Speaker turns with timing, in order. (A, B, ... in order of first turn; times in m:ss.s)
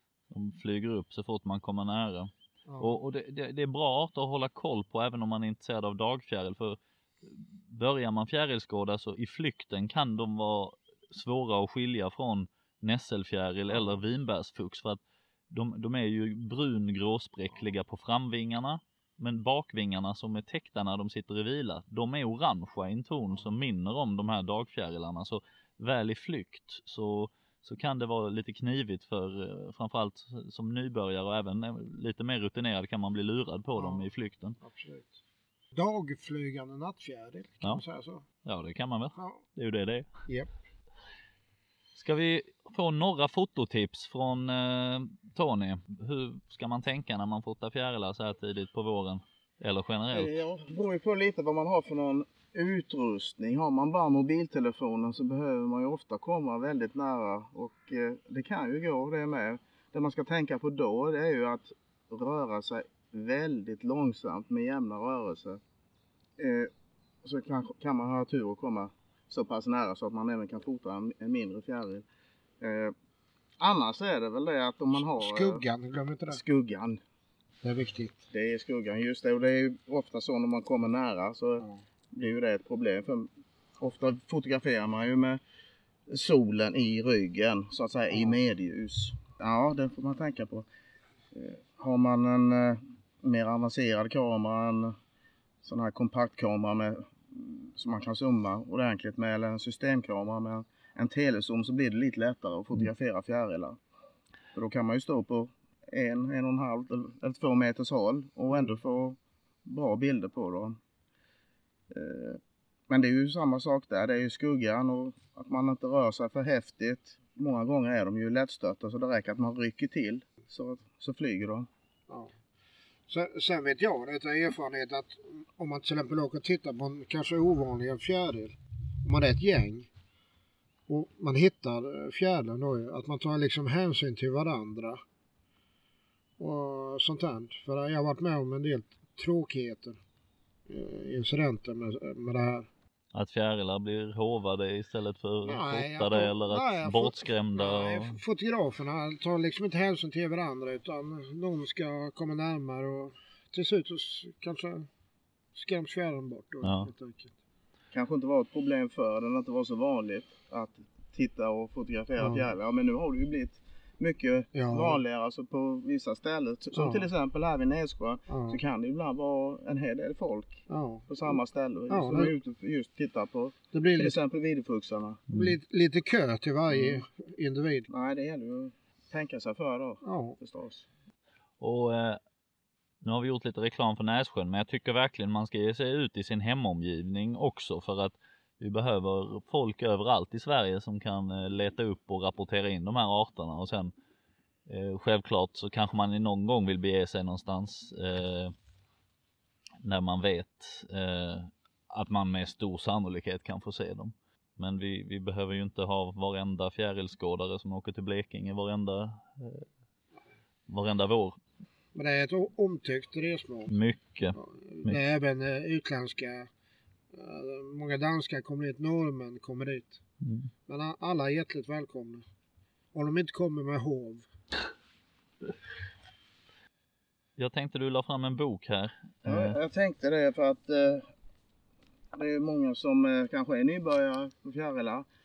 0:00.3-0:34.6 A
0:02.7-0:03.0 B
0:13.7-0:14.0 B
0:33.8-0:34.1 B
0:34.6-0:35.2 B
0:35.7-0:38.2 B
0:38.4-0:40.1 A
0:39.1-0:39.4 B
0:42.0-0:50.3 A
0:50.1-1:05.6 C
1:06.4-1:06.7 C
1:07.2-1:12.0 C
1:12.6-1:12.9 C
1:13.6-1:15.6 C
1:14.9-1:16.4 B
1:16.3-1:17.0 C
1:17.6-1:18.2 B
1:18.3-1:25.4 C
1:26.1-1:30.6 C
1:31.3-1:35.0 C
1:35.6-1:43.8 C
1:44.5-1:50.8 C
1:51.9-2:01.7 C
2:03.1-2:09.9 B
2:10.9-2:15.0 B
2:16.4-2:20.0 B
2:20.7-2:22.7 B
2:23.1-2:28.2 A
2:25.4-2:34.9 B
2:35.5-2:37.3 B
2:36.6-2:36.9 A
2:37.9-2:55.2 C
2:42.2-2:42.4 B
2:44.5-2:45.0 B
2:46.8-2:47.0 B
2:48.3-2:48.6 B
2:50.7-2:51.4 B
2:51.9-2:52.3 B
2:53.7-2:54.2 B
2:55.3-2:55.6 A
2:55.3-2:57.9 B
2:56.7-2:57.0 C
2:57.9-3:00.8 C
3:00.0-3:00.4 B
3:01.6-3:02.2 A
3:03.0-3:13.9 A
3:14.7-3:18.5 A
3:19.8-3:29.7 A
3:30.7-3:31.4 A
3:31.9-3:33.8 B
3:33.7-3:35.0 A
3:34.3-3:36.5 B
3:37.1-3:40.0 B
3:40.2-3:40.5 A
3:40.7-3:42.2 B
3:42.9-3:44.3 B
3:47.4-3:49.6 A
3:49.2-3:51.1 C
3:52.1-3:55.0 C